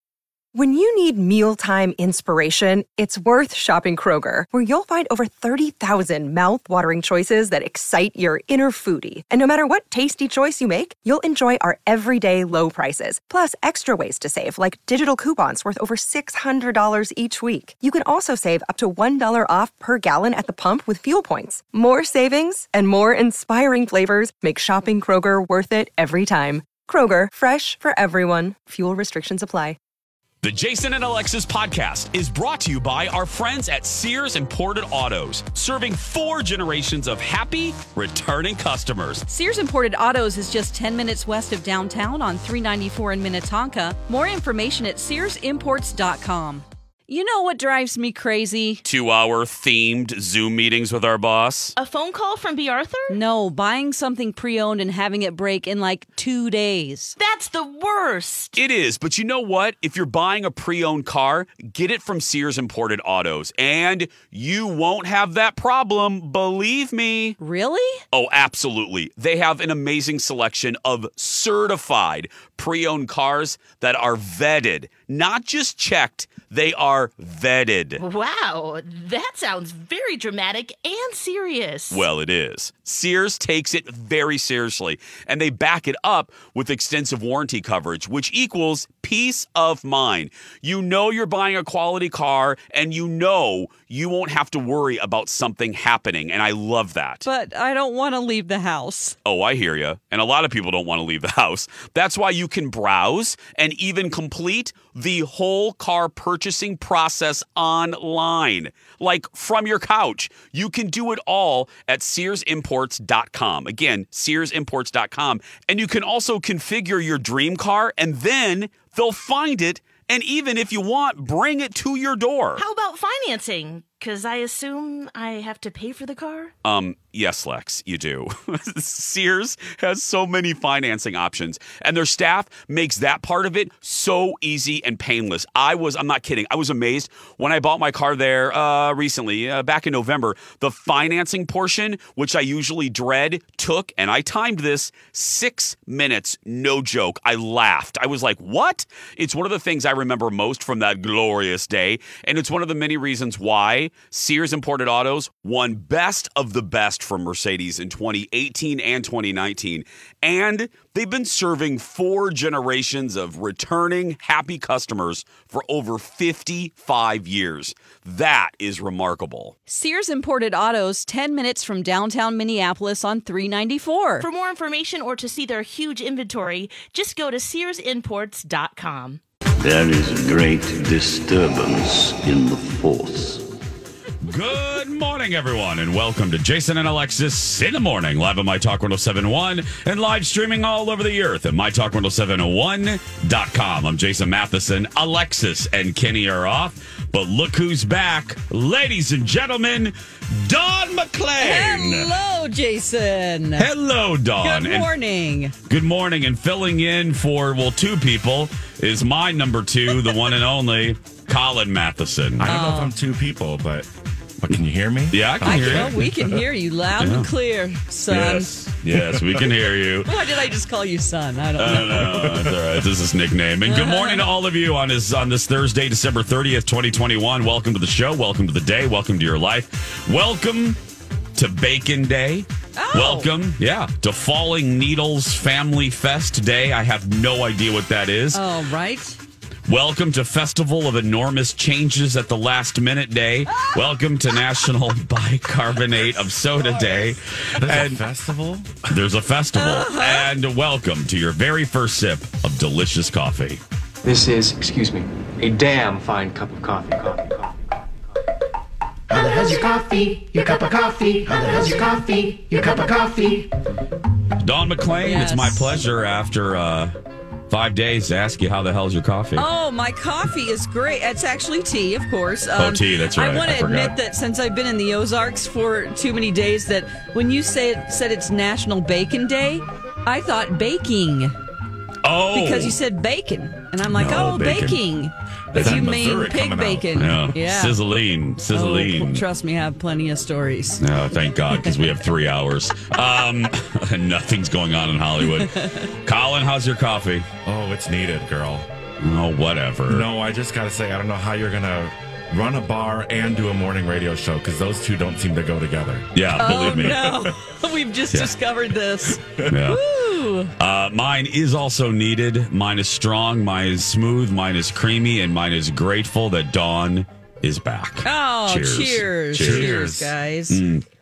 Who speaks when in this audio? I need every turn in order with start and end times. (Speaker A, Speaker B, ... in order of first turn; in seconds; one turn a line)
Speaker A: 0.5-29.8
Speaker B: 30.4-39.2
Speaker C: 39.3-48.8
Speaker B: 48.8-51.7
Speaker D: 51.8-53.1
Speaker C: 53.1-57.1
Speaker D: 57.2-58.6
Speaker B: 58.5-67.3
Speaker C: 67.4-68.0
Speaker B: 68.1-78.0
Speaker D: 78.0-82.0
Speaker B: 81.9-97.2
Speaker C: 97.2-99.2
Speaker B: 99.2-122.6
Speaker D: 122.5-126.5
Speaker B: 126.6-169.5
Speaker C: 169.7-174.2
Speaker D: 174.2-179.2
Speaker E: 179.6-183.4
Speaker B: 184.2-202.1
Speaker C: 201.4-203.7
Speaker B: 203.6-204.9
Speaker C: 204.4-205.5
Speaker B: 205.7-212.5
Speaker F: 212.4-213.9
Speaker C: 212.4-212.9
Speaker F: 214.4-216.3
Speaker B: 215.1-216.0
Speaker C: 215.4-218.5
Speaker B: 217.0-217.3
Speaker B: 218.1-220.2
Speaker F: 218.9-219.4
Speaker C: 220.1-222.5
Speaker B: 221.6-230.8
Speaker F: 221.8-222.8
Speaker C: 223.7-224.2
Speaker B: 231.3-238.4
Speaker C: 232.8-233.3
Speaker C: 238.3-239.2
Speaker B: 239.7-248.0
Speaker C: 246.6-247.1
Speaker F: 247.6-248.8
Speaker B: 248.9-253.6
Speaker C: 249.5-250.3
Speaker G: 254.0-257.6
Speaker H: 259.1-263.5
Speaker B: 264.4-266.9
Speaker C: 265.0-265.7
Speaker B: 267.5-269.4
Speaker C: 269.4-281.3
Speaker B: 272.6-273.9
Speaker B: 282.0-282.8
Speaker C: 282.3-287.8
Speaker B: 283.9-284.8
Speaker F: 285.5-287.2
Speaker B: 285.5-285.9
Speaker B: 287.0-289.2
Speaker C: 288.5-290.8
Speaker B: 290.8-295.5
Speaker C: 295.2-295.8
Speaker B: 296.0-297.2
Speaker F: 297.4-298.7
Speaker B: 299.0-300.1
Speaker F: 299.9-307.1
Speaker B: 306.1-307.2
Speaker C: 306.4-310.5
Speaker B: 309.4-309.8
Speaker B: 310.6-319.9
Speaker C: 318.0-320.6
Speaker F: 319.3-320.1
Speaker B: 320.5-320.8